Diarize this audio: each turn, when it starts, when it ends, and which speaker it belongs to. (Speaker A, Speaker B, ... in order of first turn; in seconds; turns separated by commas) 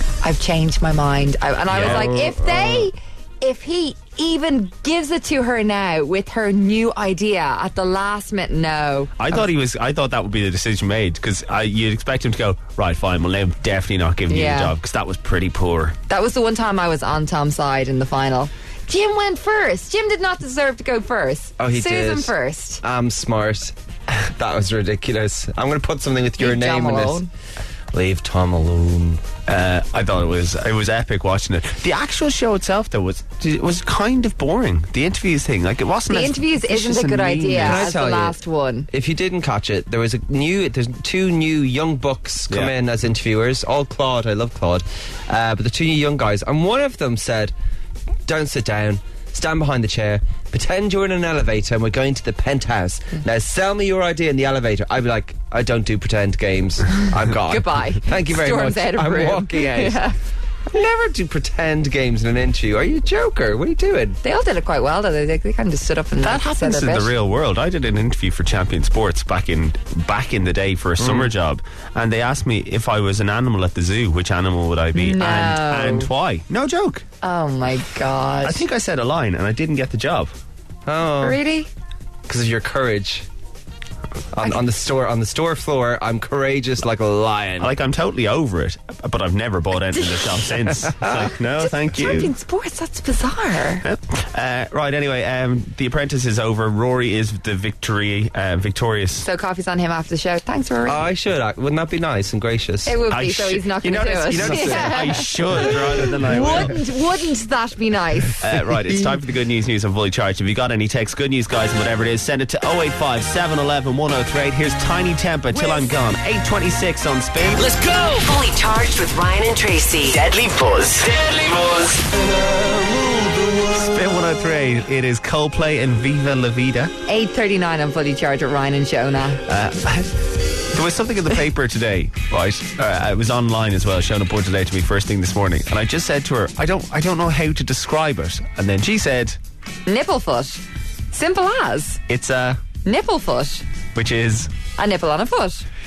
Speaker A: 0.2-9.4, Speaker B: 1.7-2.3, Speaker C: 1.7-2.9, Speaker B: 9.2-15.9, Speaker A: 14.3-14.7, Speaker A: 16.1-22.8, Speaker C: 21.6-27.2, Speaker A: 26.4-27.3, Speaker C: 27.9-29.2, Speaker B: 29.4-37.9, Speaker A: 36.1-38.9, Speaker C: 37.5-38.4, Speaker C: 38.9-47.5, Speaker B: 42.5-42.7, Speaker C: 48.3-60.0, Speaker A: 57.5-60.1, Speaker C: 60.7-64.2, Speaker A: 64.2-67.1, Speaker B: 66.2-77.0, Speaker C: 71.0-71.3, Speaker A: 74.9-76.1, Speaker A: 77.2-78.6, Speaker B: 78.4-80.3, Speaker C: 80.8-81.4, Speaker A: 81.2-81.7, Speaker C: 82.2-83.2, Speaker C: 84.3-87.8, Speaker B: 87.6-92.3, Speaker C: 91.0-91.3, Speaker A: 91.2-93.8, Speaker B: 93.8-99.2, Speaker A: 99.2-101.0, Speaker C: 100.8-103.0, Speaker A: 102.8-108.5, Speaker B: 103.1-106.8, Speaker C: 104.3-106.7, Speaker B: 108.4-117.7, Speaker D: 117.6-118.2, Speaker E: 118.0-120.3, Speaker D: 120.1-122.0, Speaker B: 123.6-126.9, Speaker A: 127.1-129.4, Speaker B: 129.4-139.4, Speaker A: 139.8-142.0, Speaker B: 142.1-142.6, Speaker A: 142.8-143.6, Speaker B: 143.9-144.5, Speaker A: 144.8-145.7